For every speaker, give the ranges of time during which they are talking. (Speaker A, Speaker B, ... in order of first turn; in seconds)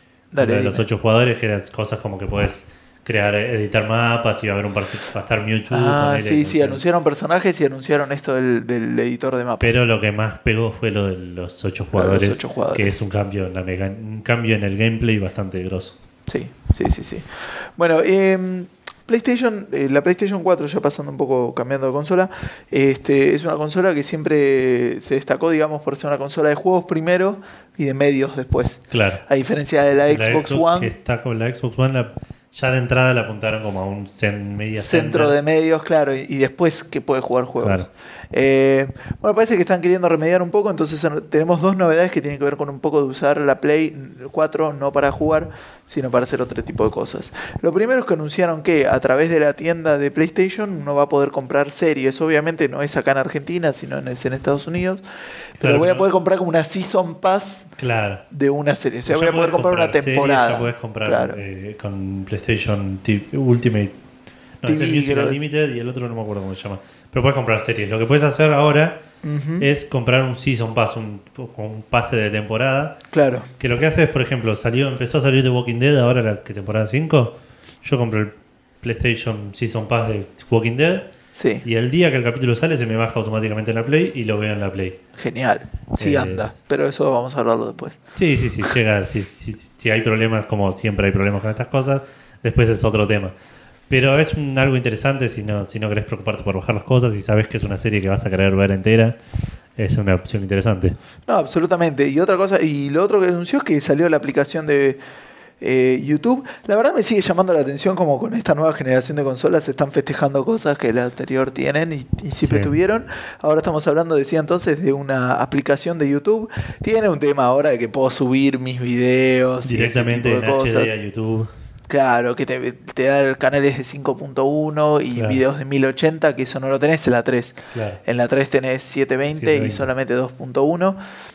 Speaker A: 0.3-0.8, 5.7-9.8, 11.9-12.9, 16.3-30.9, 34.7-55.0, 55.6-57.7, 58.3-61.4, 64.6-65.5, 69.2-69.7, 73.1-73.5, 81.3-81.6, 85.2-88.0, 101.3-105.0, 105.6-120.9, 121.9-131.0
Speaker B: 0.4-6.8, 9.6-16.0, 28.9-29.2, 30.1-35.4, 37.6-37.9, 55.6-56.0, 57.8-58.2, 59.1-63.9, 64.6-69.0, 69.6-73.0, 73.6-81.1, 81.6-85.0, 86.0-86.5, 88.1-93.3, 93.9-99.2, 99.8-101.0, 112.4-112.7, 119.6-121.5, 125.1-125.4, 127.7-128.0, 129.3-129.9